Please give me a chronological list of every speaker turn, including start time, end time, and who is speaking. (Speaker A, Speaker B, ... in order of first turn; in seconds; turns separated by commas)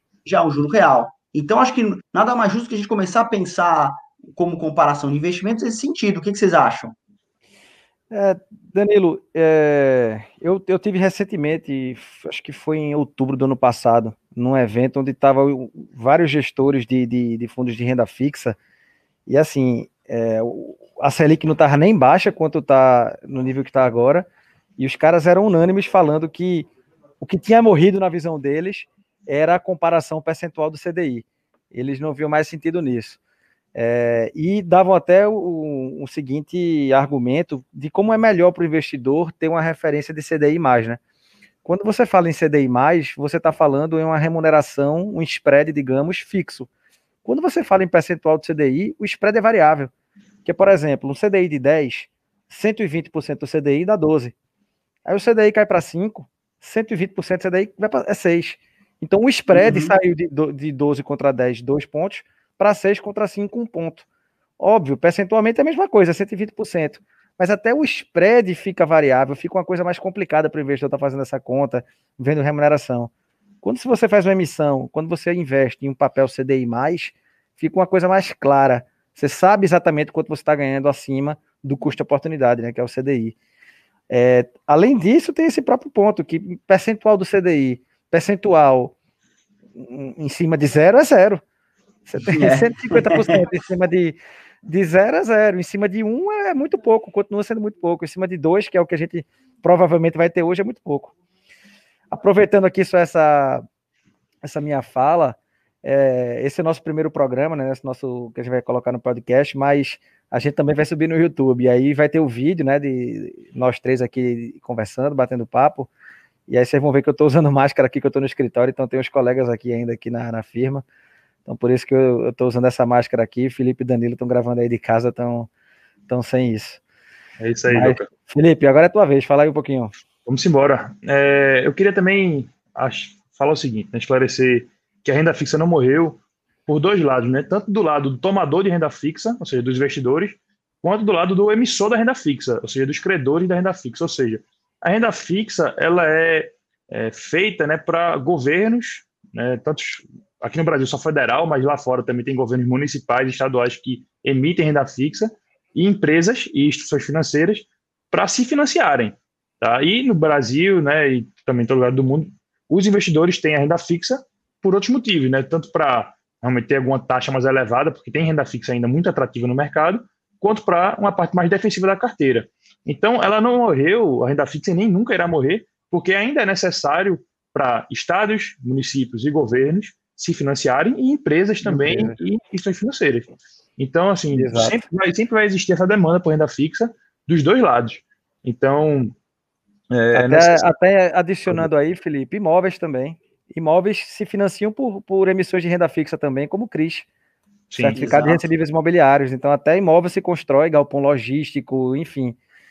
Speaker A: 0.2-7.0, Speaker B: 8.1-18.6, Speaker B: 19.3-24.3, Speaker B: 24.8-26.7, Speaker B: 27.2-33.2, Speaker B: 33.7-41.0, Speaker B: 41.6-46.7, Speaker B: 47.2-49.9, Speaker B: 50.4-54.3, Speaker B: 55.0-64.0, Speaker A: 59.5-59.9, Speaker B: 64.6-73.1, Speaker B: 73.6-83.3, Speaker B: 84.1-88.9, Speaker B: 89.8-91.4, Speaker B: 92.0-101.1, Speaker A: 92.2-93.5, Speaker B: 102.1-103.6, Speaker B: 104.4-115.9, Speaker B: 116.5-120.8, Speaker B: 121.5-125.5, Speaker B: 126.1-126.8, Speaker C: 127.4-128.1, Speaker B: 127.7-129.9, Speaker C: 130.2-189.1, Speaker B: 181.6-182.2, Speaker B: 184.3-184.8, Speaker C: 189.9-190.7, Speaker B: 190.1-197.1, Speaker C: 197.7-198.0, Speaker B: 197.8-202.4, Speaker A: 197.9-198.4